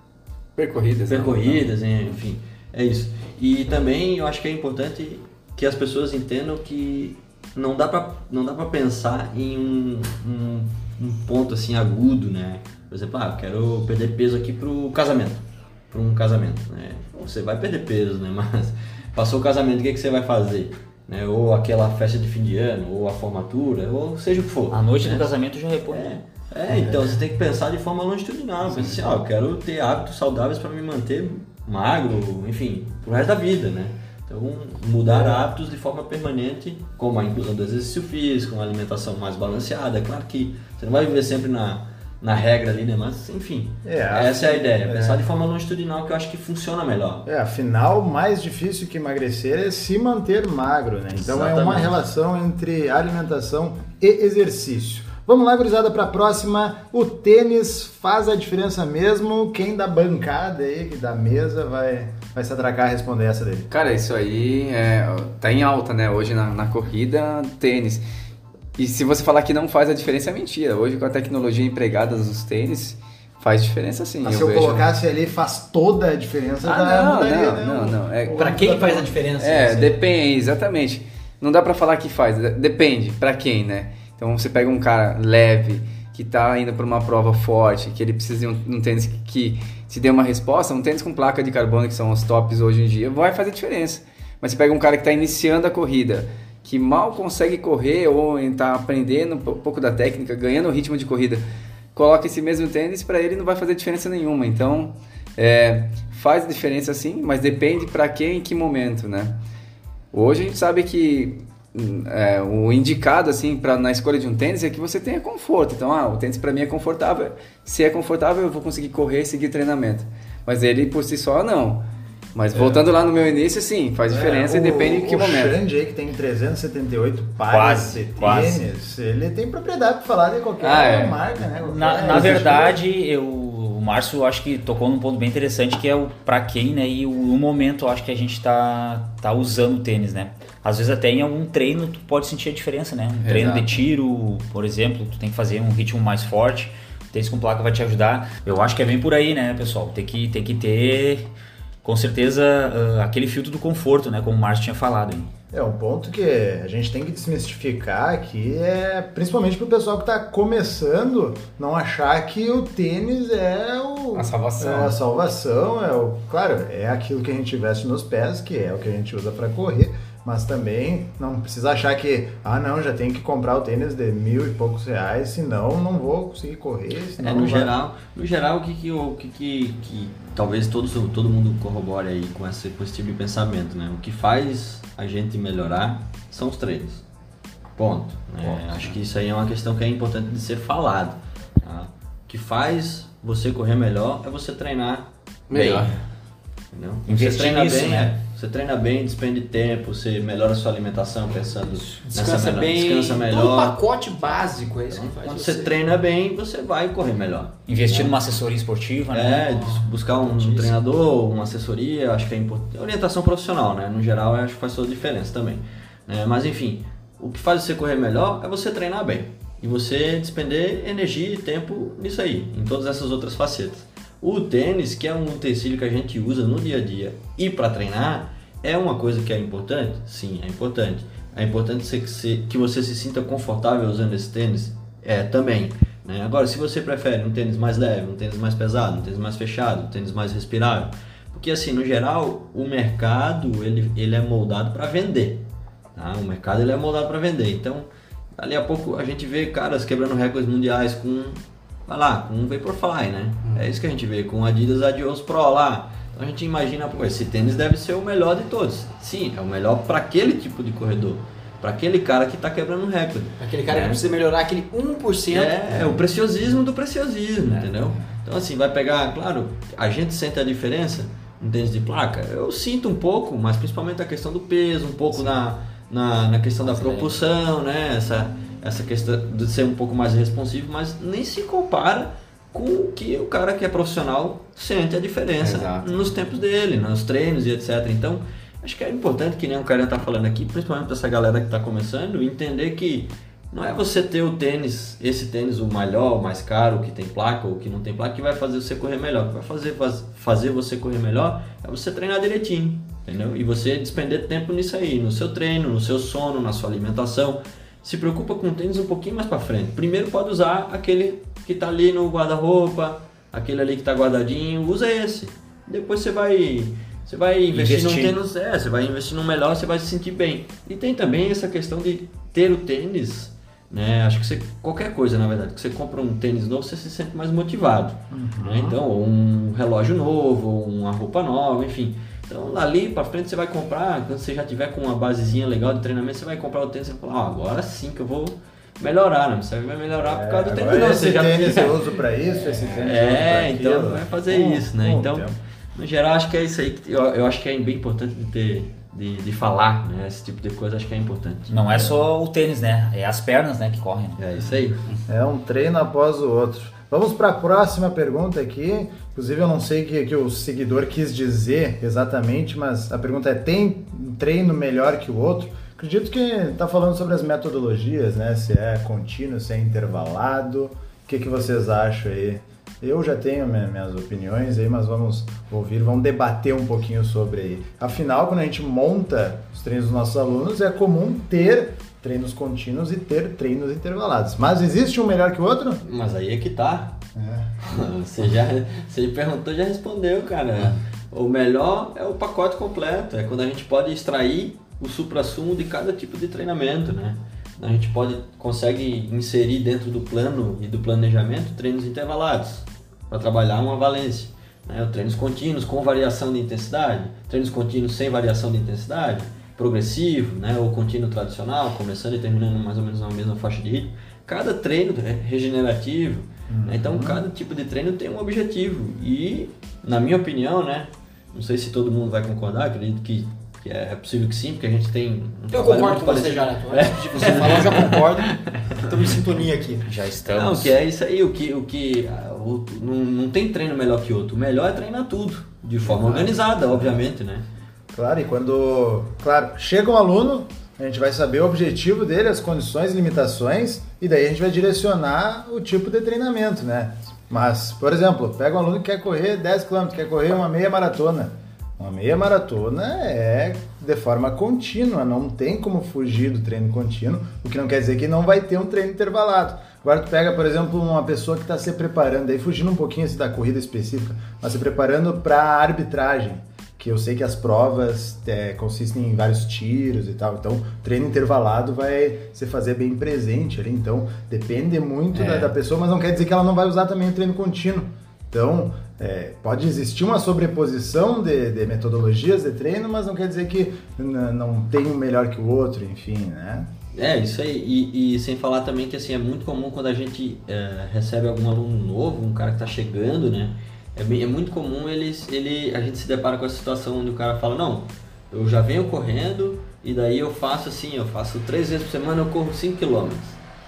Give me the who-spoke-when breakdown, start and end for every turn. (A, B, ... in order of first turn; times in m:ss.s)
0:00.6-0:01.7 A
0:01.1-0:25.3 B
0:24.7-0:26.1 C
0:25.9-0:47.3 B
0:35.1-0:35.5 D
0:43.8-0:45.2 D
0:47.3-1:03.7 D
0:51.2-0:52.0 B
1:03.7-1:08.0 A
1:08.8-1:14.9 A
1:14.2-1:19.2 D
1:16.6-1:41.4 A
1:18.4-1:20.0 E
1:41.9-1:49.4 A
1:50.1-2:01.8 A
2:02.4-2:05.6 A
2:02.6-2:02.8 D
2:04.1-2:12.8 D
2:07.5-2:08.6 C
2:10.6-2:11.2 A
2:11.6-2:31.3 C
2:23.2-2:23.7 A
2:31.8-2:35.3 C
2:35.5-2:57.8 D
2:44.1-2:45.0 A
2:57.2-3:07.0 B
3:07.8-3:16.0 B
3:08.6-3:08.8 C
3:15.5-3:16.0 A
3:16.7-3:23.8 B
3:17.1-3:18.1 C
3:21.7-3:25.8 E
3:24.9-3:28.2 B
3:27.7-3:29.7 C
3:29.1-4:24.0 B
3:29.5-3:30.8 E
4:13.4-4:13.7 A
4:23.4-4:26.0 E
4:25.3-5:42.0 B
4:36.6-4:37.2 C
4:45.4-4:46.0 A
5:17.5-5:18.2 C
5:28.1-5:28.8 D
5:40.0-5:45.4 D
5:42.6-5:52.0 B
5:51.5-5:54.2 C
5:54.2-5:54.8 B
5:55.1-6:25.8 D
6:25.8-6:27.0 B
6:27.2-6:27.5 D
6:27.6-7:08.8 B
6:56.5-6:57.2 D
7:05.5-7:09.9 E
7:09.8-7:10.8 C
7:10.3-7:17.5 B
7:15.8-7:16.3 E
7:16.7-7:17.0 D
7:17.9-8:06.7 D
7:55.1-7:55.6 A
8:06.9-8:23.4 B